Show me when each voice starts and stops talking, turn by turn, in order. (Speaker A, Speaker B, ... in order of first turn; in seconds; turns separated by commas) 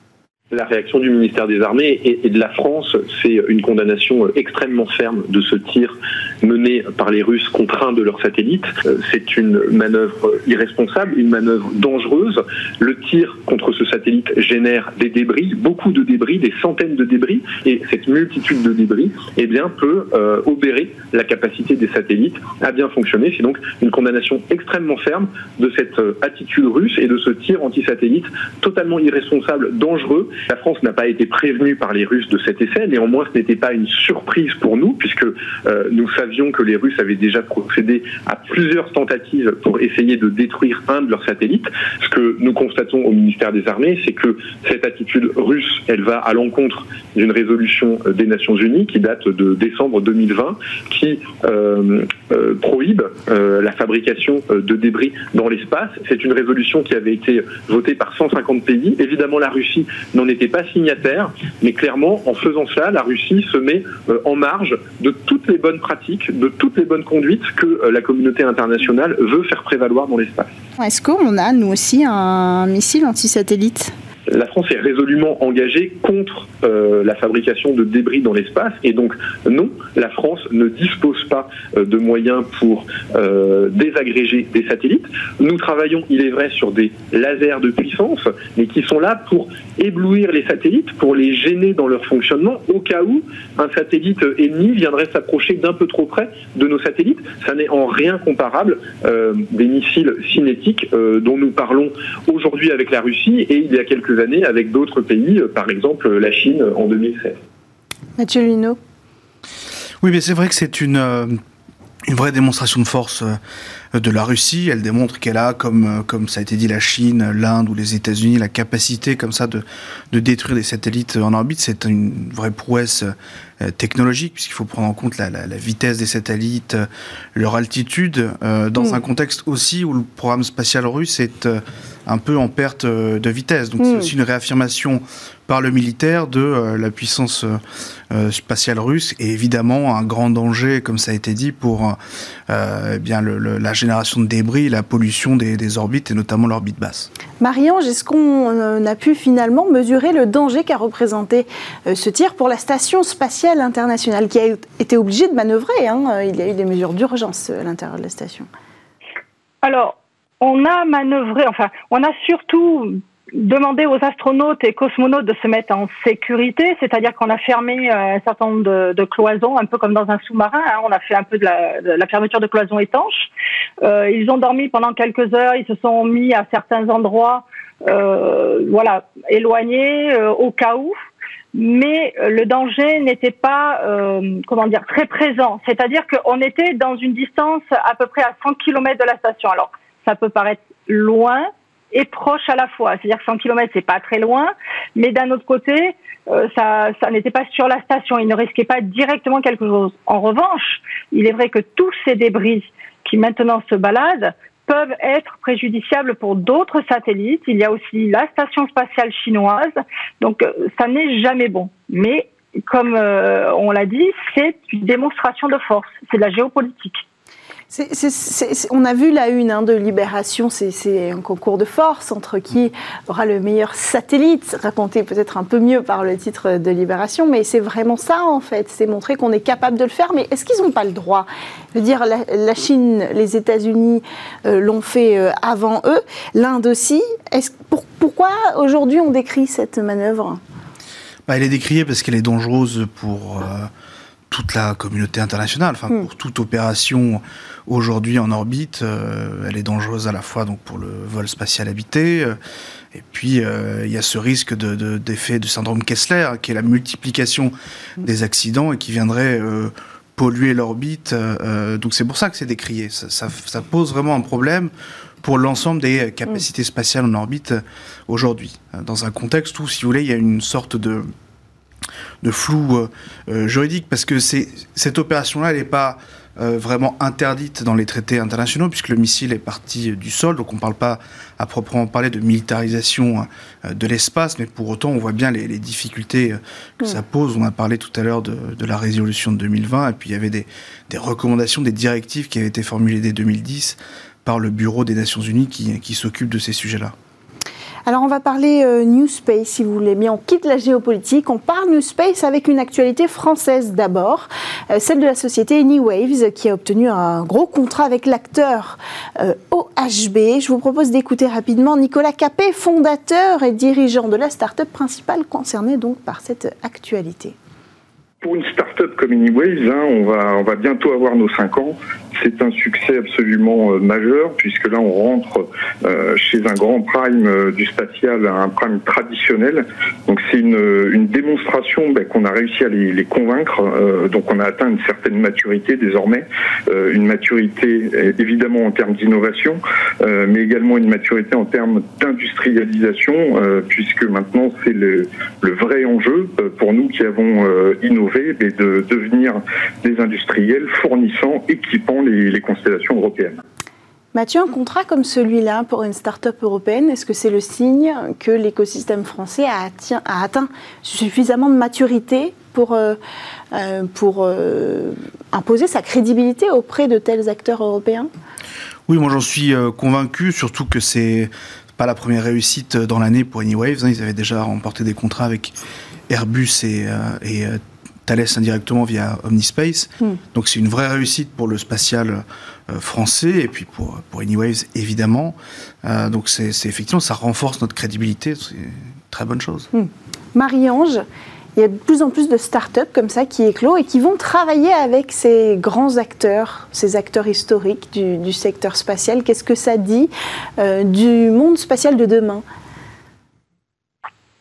Speaker A: 0.5-70.5, Speaker B: 70.8-73.9, Speaker A: 74.3-107.4, Speaker B: 108.2-108.8, Speaker C: 110.0-111.4, Speaker C: 112.1-113.4, Speaker C: 113.9-137.6, Speaker B: 133.8-134.1, Speaker C: 138.1-142.0, Speaker C: 142.5-147.1, Speaker B: 147.4-158.5, Speaker D: 159.6-173.3, Speaker D: 173.8-180.9, Speaker D: 181.5-217.0, Speaker B: 217.7-240.4, Speaker C: 241.3-243.7, Speaker C: 244.3-252.3, Speaker C: 252.9-264.7, Speaker C: 265.2-271.1, Speaker C: 272.2-296.9, Speaker B: 297.9-317.3, Speaker E: 318.2-353.4, Speaker B: 354.1-363.0, Speaker B: 363.5-368.1, Speaker C: 368.9-375.5, Speaker C: 376.1-389.7, Speaker B: 389.7-402.4